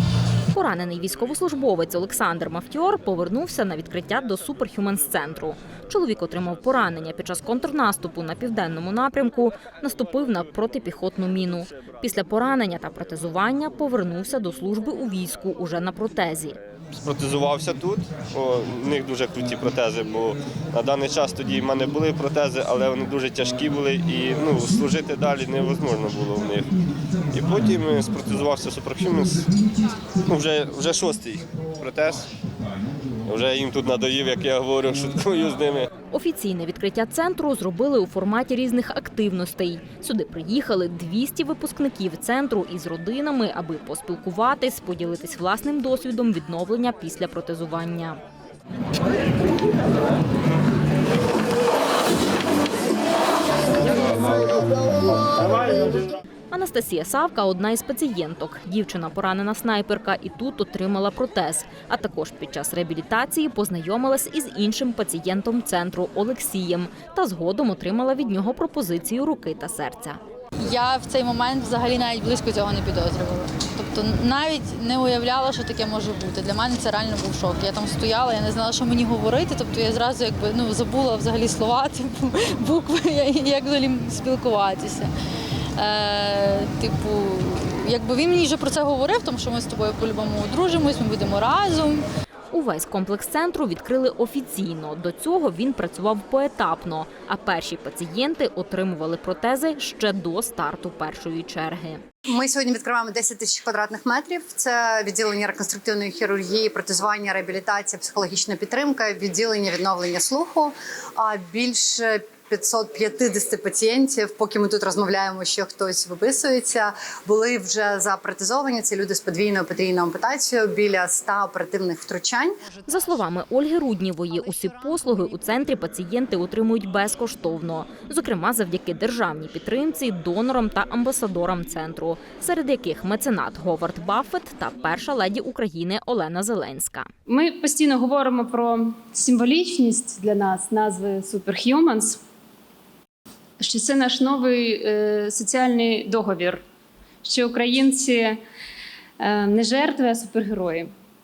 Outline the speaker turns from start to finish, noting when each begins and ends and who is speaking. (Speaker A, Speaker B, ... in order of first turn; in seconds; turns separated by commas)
Speaker A: 0.5-16.6, Speaker B: 16.9-26.7, Speaker B: 27.3-29.4, Speaker B: 30.2-32.3, Speaker B: 33.2-35.9, Speaker A: 36.1-48.2, Speaker A: 56.5-70.2, Speaker C: 70.6-85.1, Speaker C: 85.8-92.0, Speaker A: 92.5-102.0, Speaker D: 102.3-123.0, Speaker A: 122.9-137.1, Speaker D: 124.3-125.3, Speaker E: 137.3-142.2, Speaker E: 143.6-146.6, Speaker E: 147.2-148.4, Speaker E: 149.2-150.9